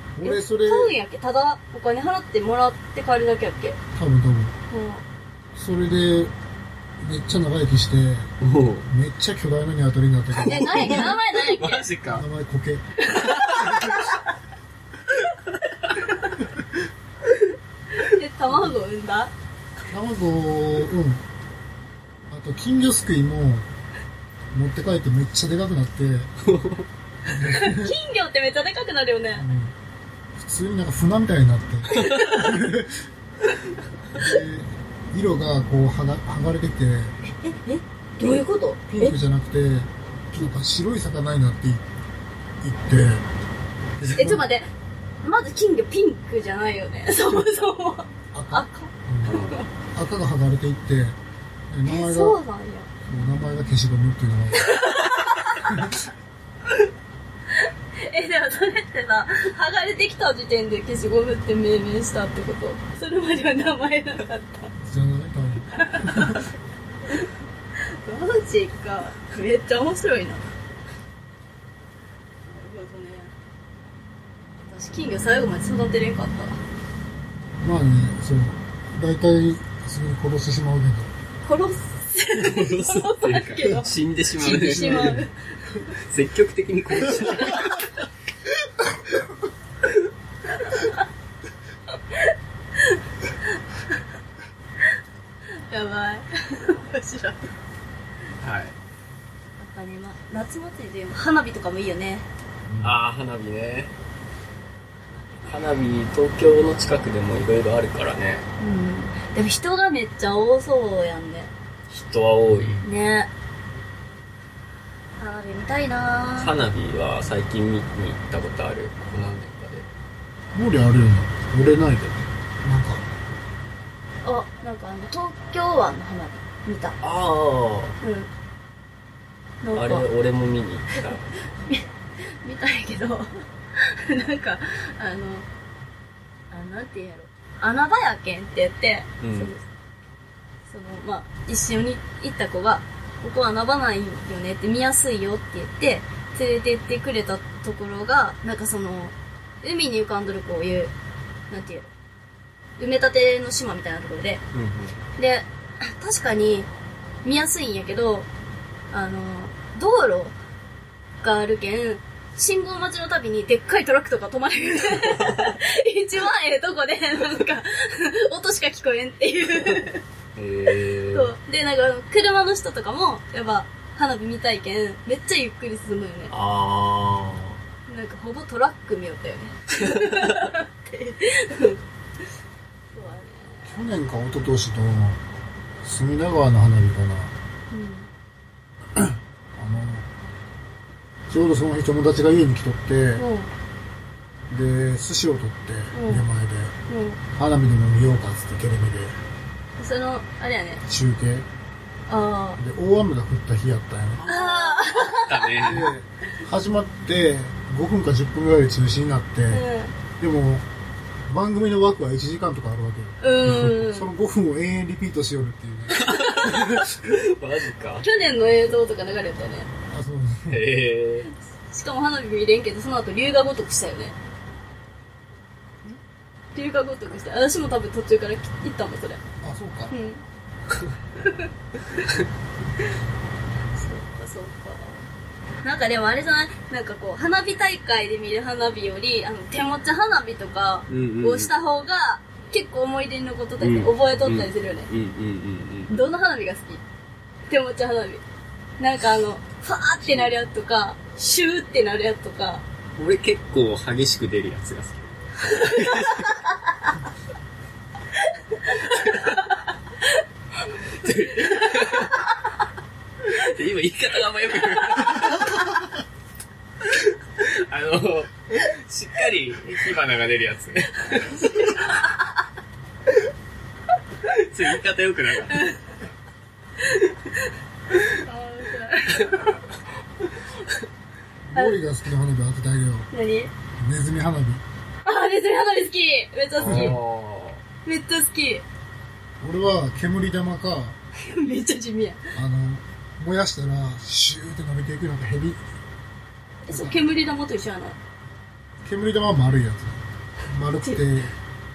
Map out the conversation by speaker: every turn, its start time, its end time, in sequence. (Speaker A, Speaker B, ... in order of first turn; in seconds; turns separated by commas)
Speaker A: 0.1-0.9, Speaker B: 0.2-3.8, Speaker A: 3.9-4.6, Speaker B: 4.7-5.0, Speaker A: 5.5-6.3, Speaker A: 7.0-8.3, Speaker C: 8.4-8.9, Speaker A: 8.9-11.1, Speaker C: 10.3-12.2, Speaker B: 10.4-11.8, Speaker A: 12.1-12.9, Speaker C: 13.2-14.1, Speaker B: 13.2-13.9, Speaker B: 18.0-19.3, Speaker A: 19.9-21.2, Speaker A: 22.3-23.7, Speaker A: 24.5-26.3, Speaker C: 26.4-26.9, Speaker A: 27.3-27.9, Speaker B: 27.4-29.4, Speaker A: 29.3-29.8, Speaker A: 30.4-33.1, Speaker B: 31.9-32.5, Speaker C: 32.0-32.3, Speaker A: 34.1-37.2, Speaker B: 37.4-39.2, Speaker A: 38.9-41.9, Speaker A: 42.6-43.3, Speaker C: 44.0-44.4, Speaker B: 44.1-44.7, Speaker B: 45.2-49.7, Speaker A: 48.3-51.2, Speaker C: 49.2-49.6, Speaker A: 51.7-52.4, Speaker B: 51.9-52.9, Speaker A: 53.1-54.7, Speaker B: 54.5-55.9, Speaker A: 55.7-55.9, Speaker B: 58.0-64.7, Speaker A: 64.8-66.4, Speaker B: 65.8-66.5, Speaker B: 67.9-70.5, Speaker B: 72.5-73.3, Speaker B: 74.7-76.6, Speaker A: 77.6-81.1, Speaker B: 81.4-85.4, Speaker C: 82.3-85.3, Speaker A: 84.4-85.3, Speaker C: 86.1-88.0, Speaker B: 90.6-91.0, Speaker B: 95.6-97.5, Speaker C: 98.4-98.8, Speaker B: 99.6-102.3, Speaker A: 102.7-103.0, Speaker C: 102.8-103.9, Speaker C: 105.5-108.5, Speaker B: 108.6-111.5, Speaker C: 111.9-112.8, Speaker A: 112.5-112.9, Speaker B: 112.8-113.3, Speaker B: 115.2-116.5, Speaker C: 116.4-119.9, Speaker A: 120.5-123.0, Speaker B: 124.2-127.0, Speaker C: 127.0-128.0, Speaker B: 128.0-128.3, Speaker B: 129.6-130.1, Speaker C: 129.7-131.4, Speaker B: 130.9-135.5, Speaker B: 136.5-139.6, Speaker C: 139.2-139.5, Speaker B: 140.7-150.9, Speaker B: 151.5-151.9, Speaker B: 152.8-154.4, Speaker C: 154.5-155.0, Speaker B: 155.2-156.7, Speaker B: 157.2-158.3, Speaker B: 158.9-160.3, Speaker B: 161.2-170.0, Speaker C: 170.4-171.3, Speaker B: 171.1-176.3, Speaker C: 176.3-177.6, Speaker B: 177.9-181.8, Speaker B: 182.9-183.8, Speaker A: 183.7-185.2, Speaker A: 185.8-187.3, Speaker B: 187.7-188.1, Speaker A: 188.9-190.1, Speaker A: 191.3-193.2, Speaker B: 193.2-193.5, Speaker A: 194.5-196.8, Speaker B: 195.9-196.3, Speaker B: 196.9-197.2, Speaker A: 197.3-199.2, Speaker B: 199.8-200.8, Speaker A: 200.9-201.5, Speaker B: 202.1-202.6, Speaker A: 202.6-204.3, Speaker C: 204.2-205.9, Speaker B: 204.2-205.7, Speaker A: 205.6-209.6, Speaker B: 209.5-209.9, Speaker A: 210.2-210.7, Speaker A: 211.3-216.9, Speaker B: 213.2-214.1, Speaker C: 215.9-218.1, Speaker B: 218.0-219.7, Speaker A: 219.9-220.7, Speaker C: 220.5-221.3, Speaker B: 221.7-224.2, Speaker B: 226.5-229.2, Speaker A: 229.4-229.9, Speaker B: 229.9-230.2, Speaker B: 231.2-231.5, Speaker B: 233.8-235.0, Speaker B: 235.6-244.9, Speaker C: 240.9-241.5, Speaker C: 243.6-246.1, Speaker B: 245.9-246.8, Speaker B: 247.5-248.2, Speaker B: 248.8-252.6, Speaker C: 250.1-250.3, Speaker C: 253.0-256.4, Speaker B: 255.5-256.4, Speaker B: 258.5-259.4, Speaker C: 259.0-259.3, Speaker C: 260.6-262.2, Speaker C: 263.2-266.0, Speaker C: 266.9-271.7, Speaker C: 274.2-275.7, Speaker B: 276.8-277.3, Speaker B: 278.0-279.6, Speaker A: 281.5-283.1, Speaker B: 281.5-281.8, Speaker B: 283.1-283.5, Speaker A: 283.8-284.6, Speaker B: 285.0-287.0, Speaker C: 286.6-287.6, Speaker A: 286.6-287.0, Speaker B: 287.9-288.6, Speaker A: 289.4-291.0, Speaker B: 291.1-292.3, Speaker A: 292.3-295.6, Speaker B: 296.7-298.0, Speaker A: 296.7-297.0, Speaker A: 298.8-301.4